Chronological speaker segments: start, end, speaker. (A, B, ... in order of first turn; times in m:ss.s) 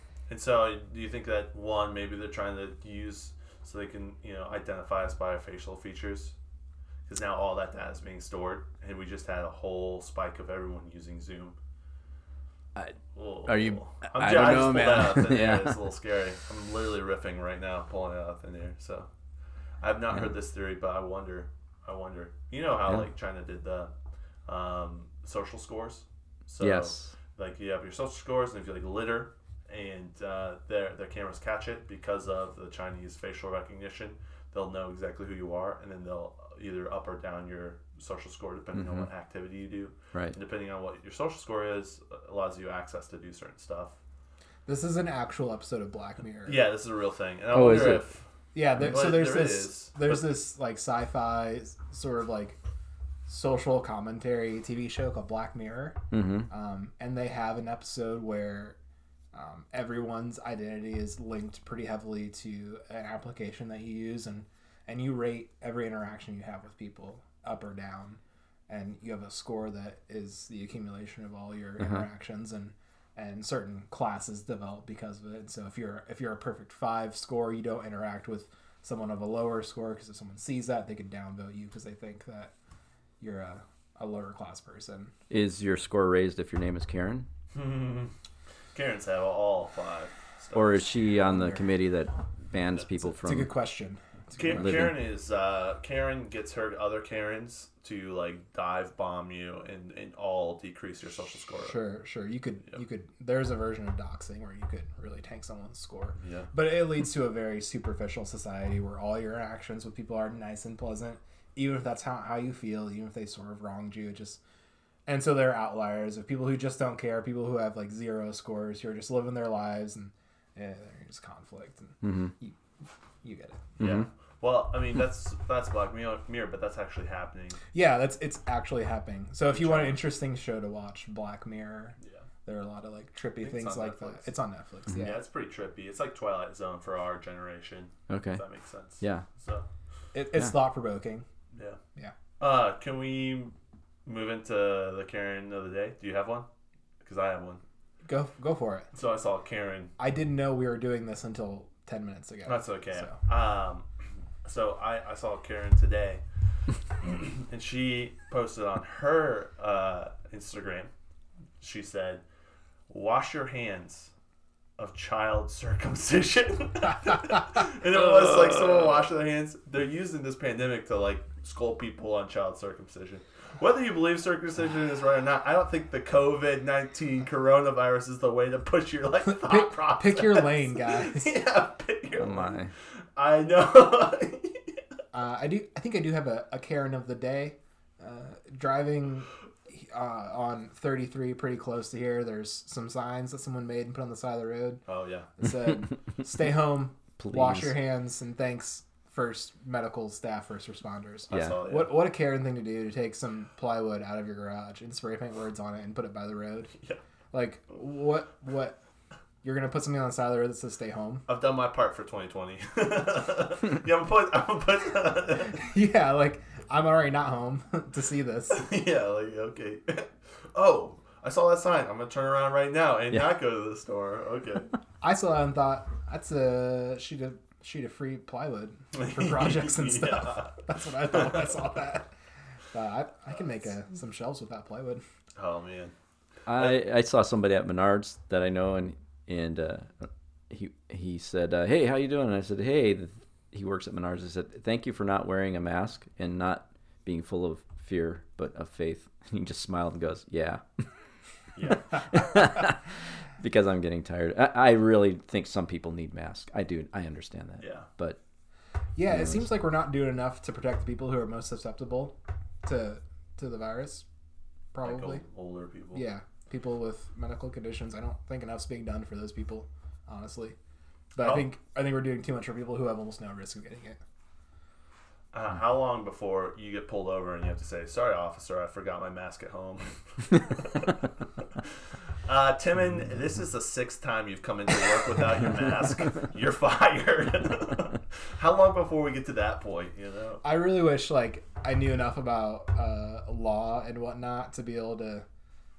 0:00.3-0:06.4 A
0:07.1-0:11.6 A
0:13.1-0:19.1 A
0:13.5-0:15.9 B
0:19.8-0:23.9 A
0:24.5-0:44.0 A
0:26.6-0:27.2 B
0:38.7-0:39.1 B
0:44.7-0:46.6 C
0:46.4-0:48.2 A
0:47.5-0:48.0 B
0:47.6-0:48.0 C
0:48.5-0:52.6 C
0:48.8-0:50.4 A
0:53.3-0:56.0 C
0:56.1-0:56.5 B
0:56.5-0:58.8 C
0:59.3-1:22.5 C
1:11.8-1:12.0 B
1:23.2-1:25.1 C
1:25.3-1:27.3 B
1:27.5-1:28.1 A
1:28.7-1:31.1 A
1:30.5-1:33.5 B
1:31.2-1:31.7 C
1:33.2-1:34.9 C
1:34.3-1:41.8 A
1:34.6-1:35.0 B
1:41.6-1:54.4 C
1:46.2-1:46.5 A
1:55.1-2:02.6 C
2:02.0-2:02.3 B
2:03.2-2:03.7 C
2:03.8-2:07.6 A
2:03.8-2:04.1 B
2:07.7-2:15.2 C
2:09.5-2:10.0 A
2:13.4-2:14.4 A
2:15.0-2:19.7 A
2:18.1-2:18.4 B
2:19.0-2:19.2 B
2:20.1-2:21.2 C
2:22.4-2:23.5 A
2:24.1-2:26.5 A
2:27.0-2:27.6 A
2:28.0-2:28.9 C
2:28.9-2:29.9 A
2:30.0-2:33.2 C
2:32.5-2:33.9 A
2:34.4-2:36.2 A
2:37.0-2:40.9 A
2:41.6-2:42.2 A
2:42.9-2:44.1 A
2:44.8-3:02.6 A
2:59.3-3:01.4 C
3:02.2-3:02.7 B
3:03.2-3:04.8 A
3:05.1-3:14.8 C
3:14.9-3:15.3 A
3:15.4-3:26.7 C
3:17.2-3:17.8 B
3:21.3-3:22.0 A
3:21.3-3:21.6 B
3:27.3-3:28.8 C
3:29.4-3:31.2 C
3:31.3-3:35.6 A
3:35.6-3:38.7 C
3:38.5-3:44.7 A
3:45.0-3:52.1 C
3:48.9-3:51.4 A
3:52.7-3:55.0 C
3:55.4-3:55.9 A
3:56.5-4:10.6 B
4:11.6-4:12.0 A
4:12.1-4:18.2 B
4:17.6-4:17.9 A
4:19.0-4:24.0 C
4:19.1-4:19.5 B
4:24.7-4:25.2 C
4:24.8-4:26.1 A
4:25.9-4:30.6 C
4:31.2-4:34.0 C
4:31.2-4:31.5 A
4:35.3-4:41.1 A
4:42.2-4:50.4 A
4:50.4-4:55.2 C